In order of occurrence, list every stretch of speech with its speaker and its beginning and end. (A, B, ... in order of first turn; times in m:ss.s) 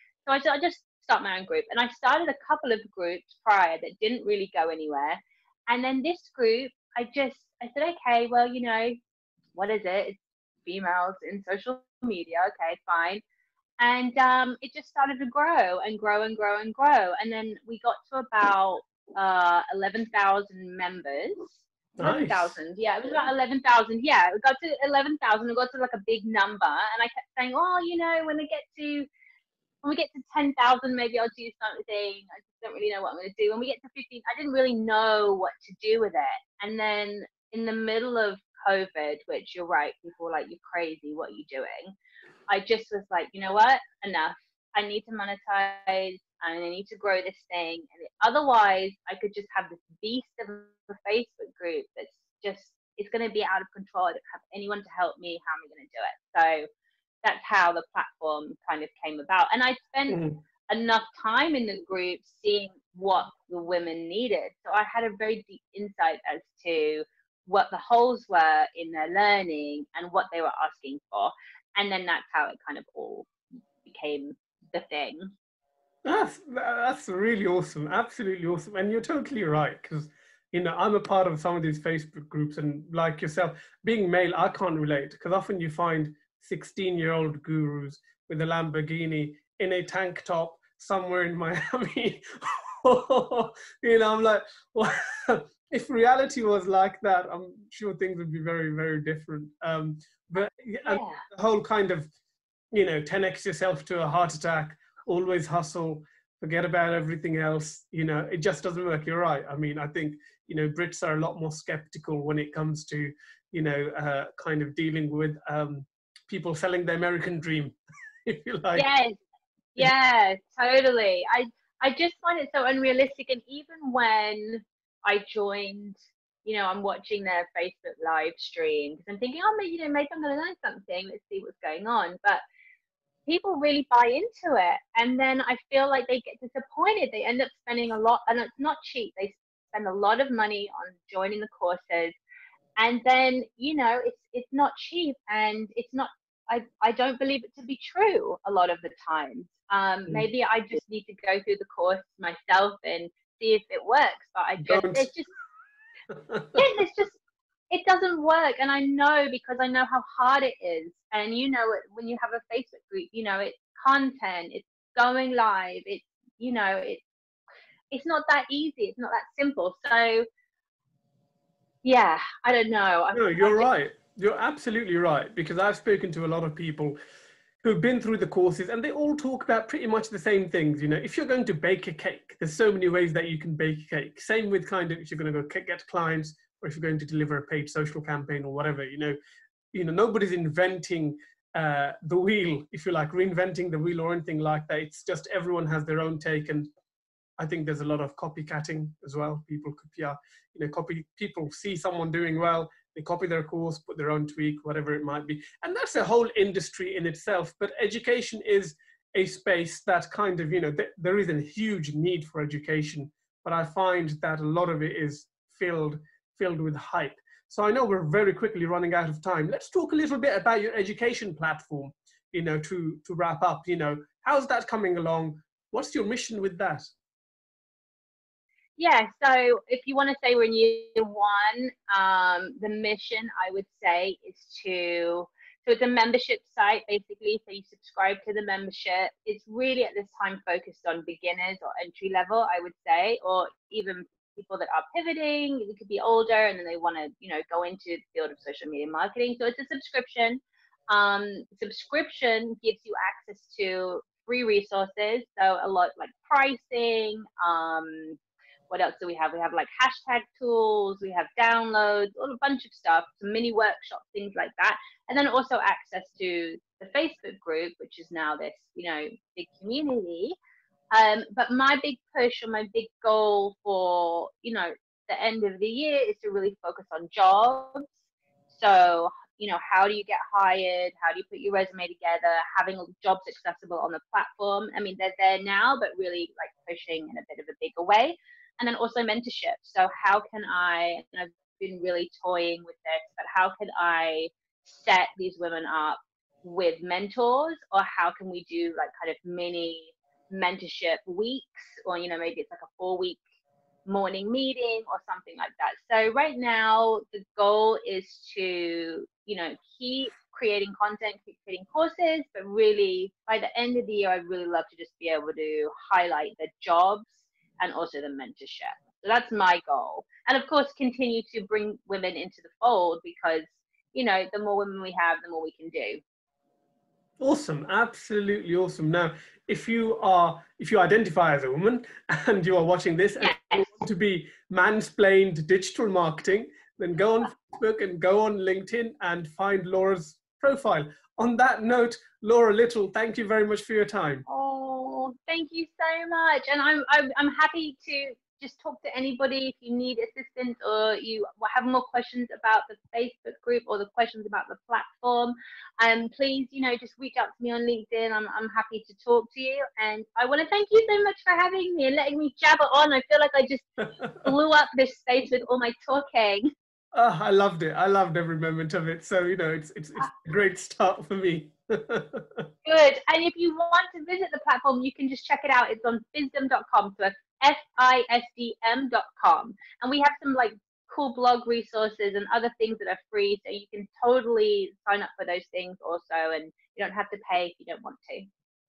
0:00.3-0:09.0 A
0:09.6-0:13.2 A
0:13.8-0:29.1 A
0:22.0-0:22.6 B
0:29.8-0:41.9 A
0:42.5-0:56.7 A
0:57.2-1:13.3 A
1:00.1-1:00.4 B
1:13.8-1:15.3 A
1:16.0-1:42.1 B
1:40.8-1:41.2 A
1:42.7-1:58.9 B
1:58.8-1:59.2 A
1:59.8-2:12.4 A
2:13.3-2:22.2 A
2:22.8-2:35.3 A
2:34.6-2:35.1 B
2:36.1-2:36.6 B
2:36.5-2:47.0 A
2:47.9-2:50.2 A
2:51.8-2:53.7 A
2:53.1-2:57.0 B
2:57.6-3:09.2 B
3:09.7-3:16.7 B
3:17.4-3:46.9 B
3:48.8-4:18.2 A
4:18.7-4:30.4 A
4:30.9-4:38.0 A
4:38.5-5:03.2 A
5:03.9-5:26.0 A
5:27.2-5:44.2 B
5:33.2-5:33.6 A
5:44.3-6:06.5 A
6:03.9-6:04.3 B
6:07.0-6:12.5 B
6:12.6-6:28.3 A